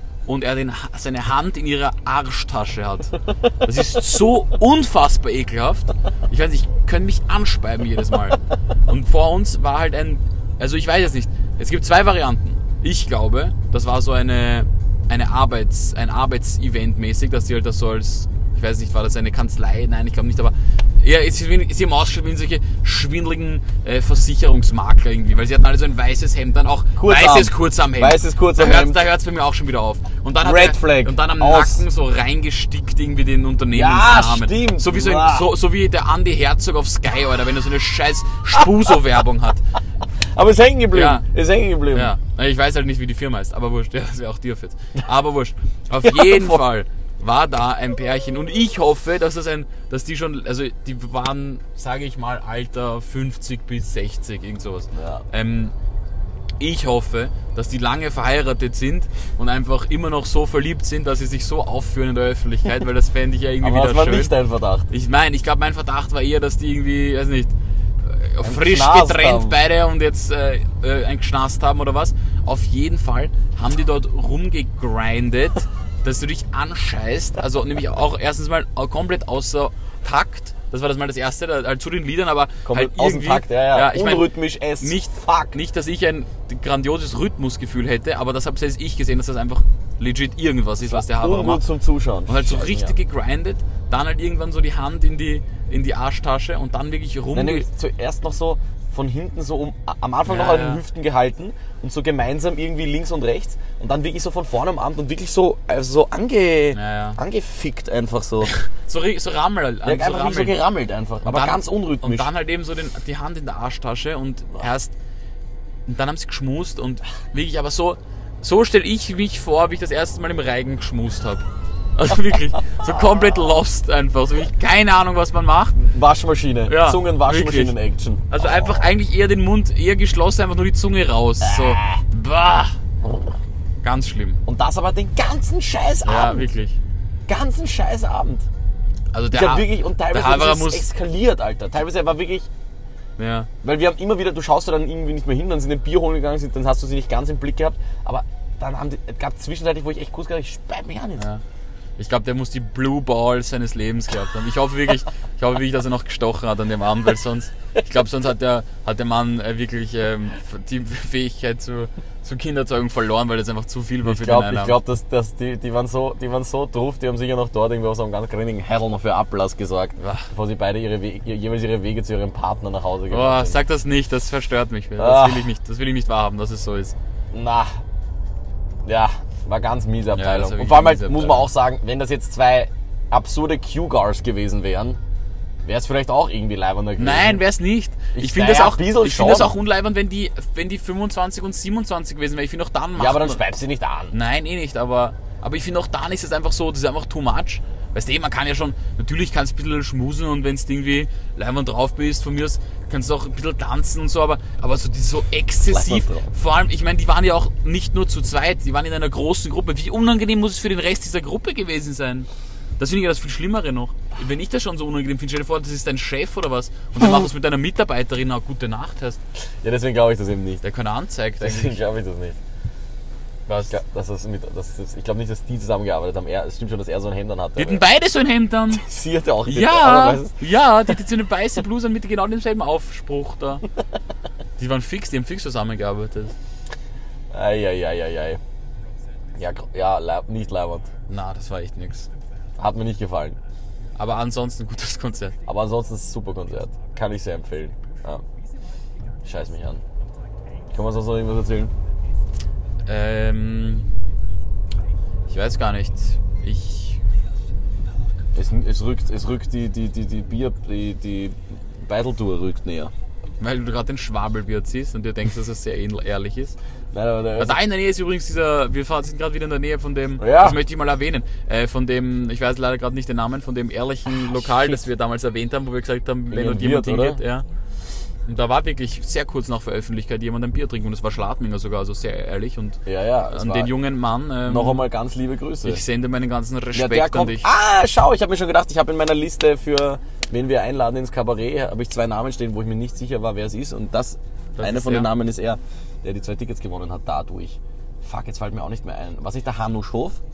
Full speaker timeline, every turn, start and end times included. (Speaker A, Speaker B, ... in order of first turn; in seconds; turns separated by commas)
Speaker A: 0.2-39.6, Speaker B: 26.9-29.0, Speaker B: 30.4-31.9, Speaker B: 33.7-35.5, Speaker B: 40.3-42.1, Speaker A: 40.9-41.2, Speaker A: 41.9-55.7, Speaker B: 46.1-46.5, Speaker B: 54.9-55.2, Speaker A: 56.6-64.3, Speaker B: 63.6-64.9, Speaker A: 64.9-67.5, Speaker A: 68.0-91.6, Speaker B: 68.4-69.6, Speaker B: 82.6-85.5, Speaker B: 90.8-93.0, Speaker A: 92.3-97.7, Speaker B: 97.3-108.5, Speaker A: 100.2-100.8, Speaker A: 106.7-107.2, Speaker A: 108.5-110.6, Speaker B: 109.8-112.3, Speaker A: 111.2-114.9, Speaker A: 115.8-125.8, Speaker B: 125.8-128.9, Speaker A: 126.7-127.8, Speaker A: 128.3-132.8, Speaker B: 131.4-132.0, Speaker A: 133.8-134.4, Speaker B: 134.4-136.5, Speaker A: 136.0-136.8, Speaker B: 137.3-138.5, Speaker A: 139.1-140.9, Speaker B: 139.3-142.5, Speaker A: 143.2-143.5, Speaker B: 143.6-151.3, Speaker A: 151.2-151.4, Speaker A: 152.0-164.8, Speaker B: 164.0-173.6, Speaker A: 170.0-170.3, Speaker A: 173.1-176.9, Speaker B: 175.0-175.5, Speaker B: 177.3-177.8, Speaker B: 178.8-185.0, Speaker A: 180.1-181.5, Speaker B: 185.6-187.4, Speaker A: 187.0-193.4, Speaker B: 188.1-189.6, Speaker B: 192.9-194.2, Speaker A: 194.1-219.2, Speaker B: 205.7-206.3, Speaker B: 219.6-220.6, Speaker A: 220.6-221.8, Speaker B: 221.4-222.4, Speaker A: 223.5-223.8, Speaker B: 223.7-227.8, Speaker A: 227.6-228.8, Speaker B: 228.7-230.4, Speaker A: 229.4-233.6, Speaker A: 234.6-236.3, Speaker B: 237.3-238.4, Speaker B: 239.3-240.9, Speaker A: 241.1-242.1, Speaker B: 242.6-243.4, Speaker A: 243.9-245.4, Speaker B: 245.4-248.2, Speaker B: 249.2-249.8, Speaker B: 250.7-251.7, Speaker A: 252.8-253.9, Speaker A: 255.3-257.0, Speaker B: 258.3-262.9, Speaker A: 263.4-266.6, Speaker B: 266.9-267.6, Speaker A: 267.4-277.4, Speaker B: 270.2-270.6, Speaker B: 276.3-277.2, Speaker A: 278.2-284.8, Speaker B: 282.9-283.8, Speaker B: 284.4-285.8, Speaker A: 285.6-287.5, Speaker B: 286.7-300.2, Speaker A: 294.6-295.1